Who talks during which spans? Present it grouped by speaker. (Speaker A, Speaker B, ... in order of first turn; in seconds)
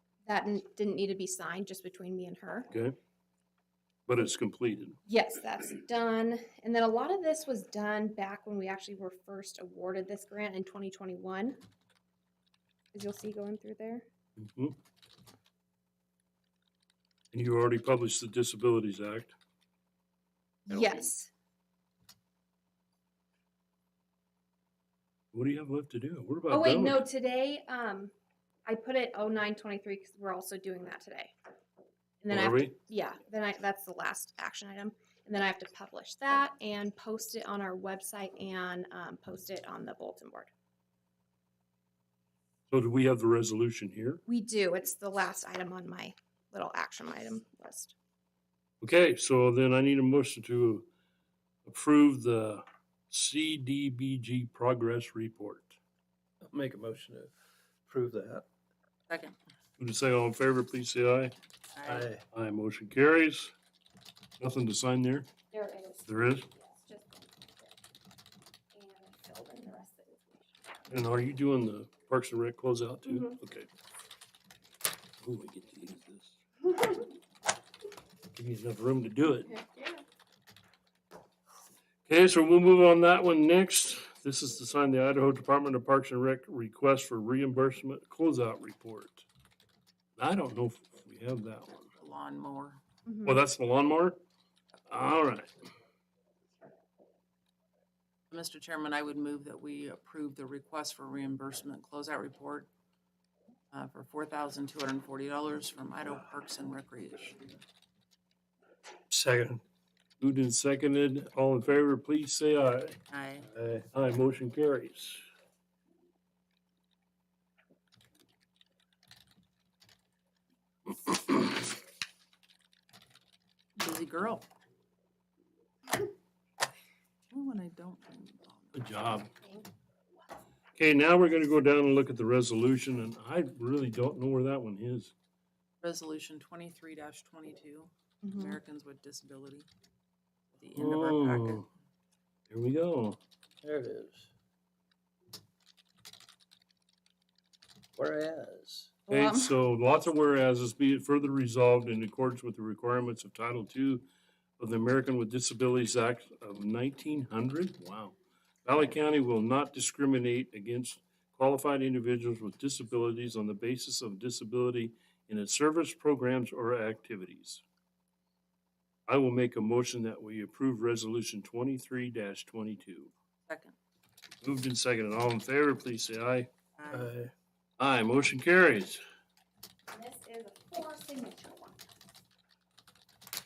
Speaker A: 0.3-2.7, 5.1-11.6, 12.9-14.1, 20.7-21.3, 26.5-28.1, 28.7-31.3, 32.2-40.5, 44.3-48.0, 65.5-67.8, 68.7-70.6, 73.1-73.4, 79.5-80.0, 93.1-93.4, 138.2-138.6, 149.1-149.6, 179.9-181.8
Speaker B: 2.7-3.0, 4.1-5.0, 14.4-14.8, 17.3-19.4, 25.3-27.0, 32.3-32.8, 42.7-44.2, 48.8-50.9, 51.7-55.8, 59.8-61.3, 62.3-63.5, 64.4-65.3, 66.1-66.5, 70.9-73.7, 75.2-76.4, 78.4-79.5, 82.1-89.2, 90.2-91.9, 93.2-94.2, 94.9-95.5, 110.2-113.0, 113.9-115.2, 128.7-129.3, 130.8-135.1, 140.8-141.7, 142.5-143.2, 149.1-154.1, 154.6-167.6, 169.1-173.1, 174.4-176.5, 177.8-179.0
Speaker C: 20.7-21.1, 59.1-59.4, 61.7-62.1, 92.0-92.8, 98.3-102.7, 103.7-107.5, 113.1-113.5, 123.8-124.5, 127.3-128.9, 135.8-139.7, 140.6-141.7, 173.5-173.8, 176.8-177.1
Speaker D: 56.4-57.3, 57.9-58.5, 61.9-62.2, 109.1-109.6, 113.5-113.8, 143.6-144.3, 148.0-148.9, 176.9-177.3